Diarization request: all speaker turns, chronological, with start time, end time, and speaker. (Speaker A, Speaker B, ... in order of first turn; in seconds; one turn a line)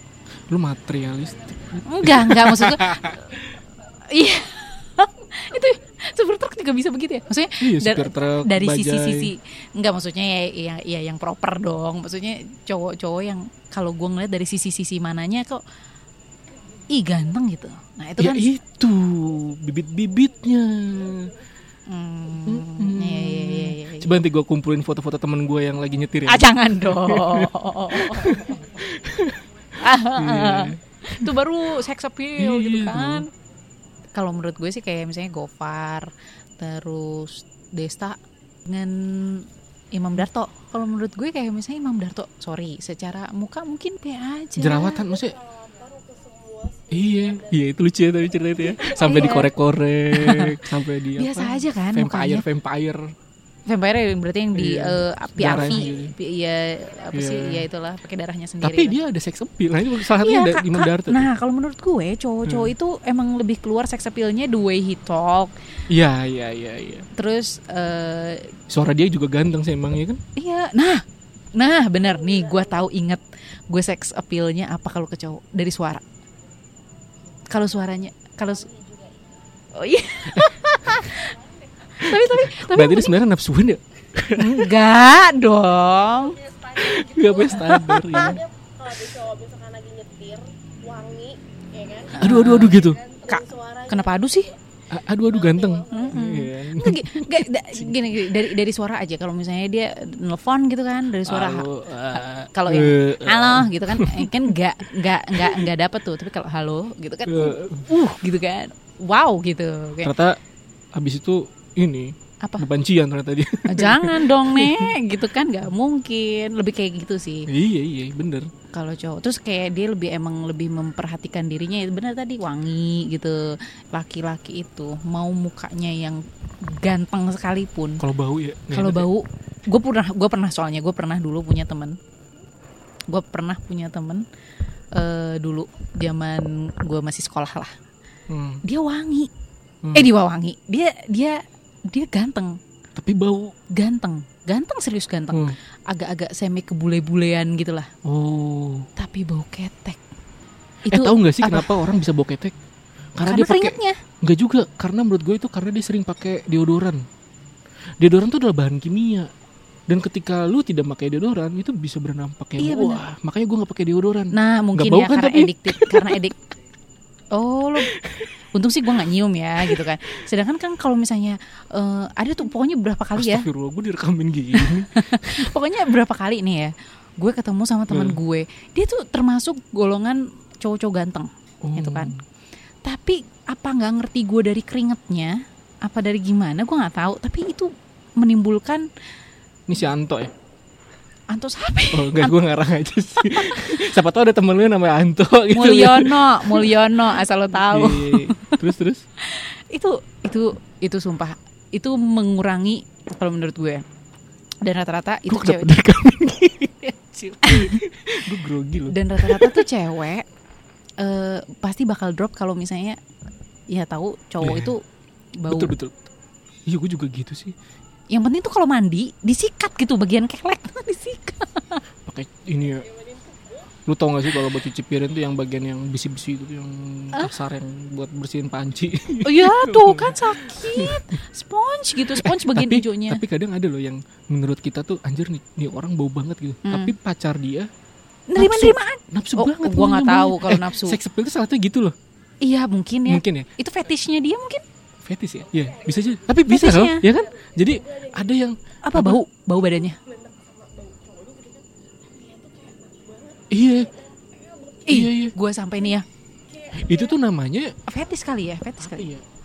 Speaker A: 0.5-3.5
Speaker B: 1.8-3.4
Speaker B: 4.1-15.6
Speaker A: 7.6-9.3
Speaker B: 16.9-18.5
Speaker A: 18.2-21.3
Speaker B: 21.9-24.2
Speaker A: 22.5-31.4
Speaker B: 26.3-28.6
Speaker B: 29.8-33.3
Speaker A: 32.4-33.2
Speaker B: 34.1-45.0
Speaker A: 44.6-45.4
Speaker C: 45.0-49.0
Speaker A: 46.9-53.1
Speaker B: 48.9-49.5
Speaker B: 50.1-52.4
Speaker B: 53.7-59.0
Speaker A: 54.5-56.1
Speaker A: 57.1-57.7
Speaker A: 58.6-61.3
Speaker B: 60.0-65.5
Speaker A: 62.5-62.7
Speaker A: 65.9-67.1
Speaker B: 67.2-68.6
Speaker A: 68.7-70.2
Speaker B: 70.4-76.0
Speaker C: 72.0-72.8
Speaker B: 77.5-78.7
Speaker C: 78.5-79.4
Speaker B: 79.7-81.3
Speaker C: 81.2-81.5
Speaker B: 81.9-83.2
Speaker A: 82.0-84.7
Speaker B: 84.3-86.4
Speaker C: 86.0-94.6
Speaker A: 86.8-88.4
Speaker B: 87.7-88.0
Speaker B: 92.1-94.5
Speaker A: 92.2-93.0
Speaker A: 94.9-98.3
Speaker C: 95.3-96.2
Speaker B: 95.9-110.1
Speaker A: 101.2-104.5
Speaker A: 105.3-105.7
Speaker A: 107.3-107.9
Speaker A: 110.0-110.4
Speaker A: 110.9-115.0
Speaker B: 113.7-117.5
Speaker A: 117.5-118.5
Speaker B: 118.7-128.0
Speaker A: 128.0-129.1
Speaker B: 128.7-132.0
Speaker B: 133.1-134.2
Speaker B: 134.9-137.7
Speaker A: 138.3-138.6
Speaker B: 138.6-139.3
Speaker A: 139.8-140.1
Speaker B: 139.9-142.6
Speaker A: 143.0-143.6
Speaker B: 143.7-147.9
Speaker A: 148.1-148.9
Speaker B: 149.0-150.0
Speaker B: 150.9-151.7
Speaker A: 150.9-152.6
Speaker A: 153.2-157.1
Speaker B: 153.2-154.0
Speaker A: 158.0-159.3
Speaker A: 159.9-166.2
Speaker B: 162.6-163.0
Speaker B: 164.3-166.4
Speaker B: 167.3-167.9
Speaker A: 167.8-168.3
Speaker B: 168.5-173.5
Speaker A: 169.6-169.9
Speaker A: 173.2-175.5
Speaker B: 174.5-182.1
Speaker A: 177.9-178.2
Speaker A: 181.6-182.2
Speaker B: 182.8-188.9
Speaker A: 189.7-190.3
Speaker B: 191.3-192.4
Speaker A: 191.9-199.0
Speaker B: 193.2-193.8
Speaker B: 195.5-198.6
Speaker B: 199.2-203.8
Speaker B: 204.6-205.8
Speaker A: 205.3-209.7
Speaker B: 207.4-207.8
Speaker B: 208.9-210.3
Speaker B: 211.0-213.0
Speaker B: 213.7-214.8
Speaker A: 214.4-214.8
Speaker B: 215.4-215.7
Speaker A: 215.5-216.0
Speaker A: 216.7-217.6
Speaker B: 218.1-221.8
Speaker A: 222.1-222.9
Speaker C: 222.8-223.7
Speaker A: 223.9-231.2
Speaker B: 229.2-233.2
Speaker A: 232.0-237.7
Speaker B: 236.7-236.9
Speaker B: 238.3-241.0
Speaker A: 238.4-241.9
Speaker B: 242.4-244.6
Speaker A: 243.1-243.5
Speaker A: 245.0-249.2
Speaker C: 245.6-246.3
Speaker B: 246.5-247.1
Speaker C: 247.0-248.4
Speaker B: 248.8-250.0
Speaker C: 249.9-255.0
Speaker A: 253.5-253.9
Speaker B: 254.9-256.1
Speaker A: 254.9-255.3
Speaker C: 256.5-257.2
Speaker A: 256.7-257.8
Speaker B: 257.9-259.1
Speaker A: 258.8-259.2